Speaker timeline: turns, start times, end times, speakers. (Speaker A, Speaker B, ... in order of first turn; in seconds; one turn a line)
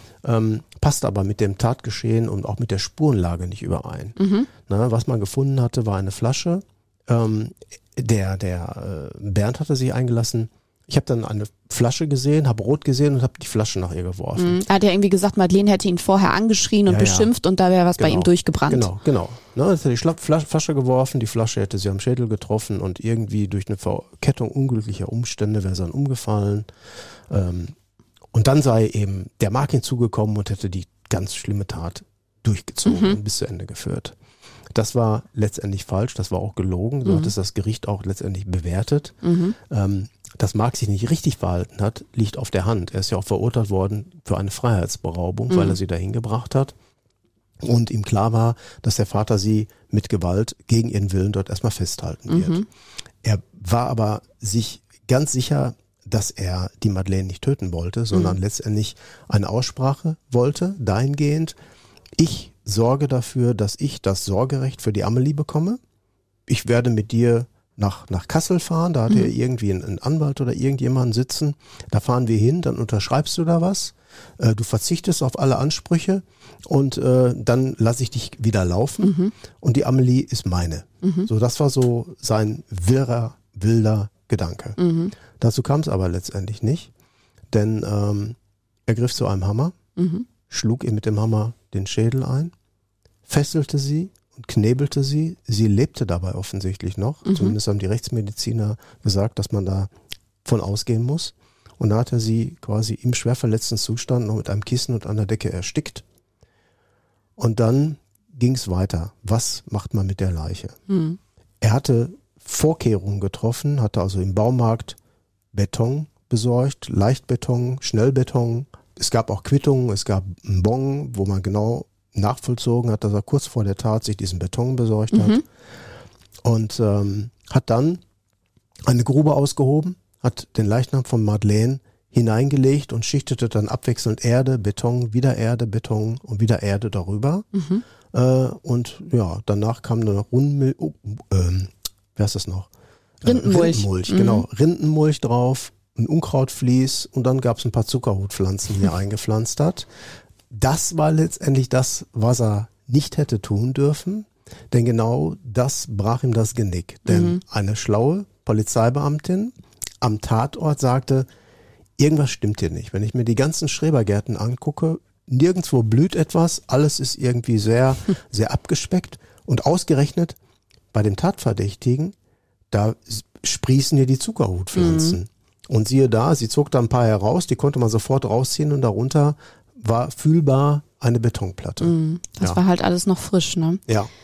Speaker A: 0.2-14.6
Speaker B: 4.2-4.5
Speaker B: 14.4-18.9
Speaker A: 16.9-17.3
Speaker A: 18.0-26.7
Speaker A: 27.3-27.7
Speaker A: 28.3-34.1
Speaker B: 32.9-33.2
Speaker A: 34.7-46.7
Speaker B: 39.2-39.5
Speaker B: 45.5-45.8
Speaker A: 47.6-52.6
Speaker B: 52.3-52.6
Speaker A: 53.2-61.5
Speaker A: 62.2-65.8
Speaker A: 66.5-84.8
Speaker B: 79.0-79.3
Speaker B: 81.0-81.3
Speaker B: 84.8-85.1
Speaker A: 85.3-86.9
Speaker A: 87.5-89.8
Speaker B: 90.0-90.2
Speaker A: 90.5-92.5
Speaker A: 93.3-99.9
Speaker B: 97.2-97.5
Speaker A: 100.4-106.0
Speaker A: 107.4-110.8
Speaker B: 110.9-111.2
Speaker A: 111.6-115.0
Speaker A: 115.5-125.4
Speaker B: 125.1-125.4
Speaker A: 126.4-128.0
Speaker A: 128.9-137.5
Speaker B: 137.5-137.8
Speaker A: 138.1-142.7
Speaker A: 143.2-149.9
Speaker B: 143.2-144.4
Speaker A: 150.5-161.3
Speaker B: 157.1-157.4
Speaker A: 162.0-170.4
Speaker A: 170.9-172.1
Speaker A: 172.7-182.6
Speaker B: 174.7-175.2
Speaker B: 181.8-183.8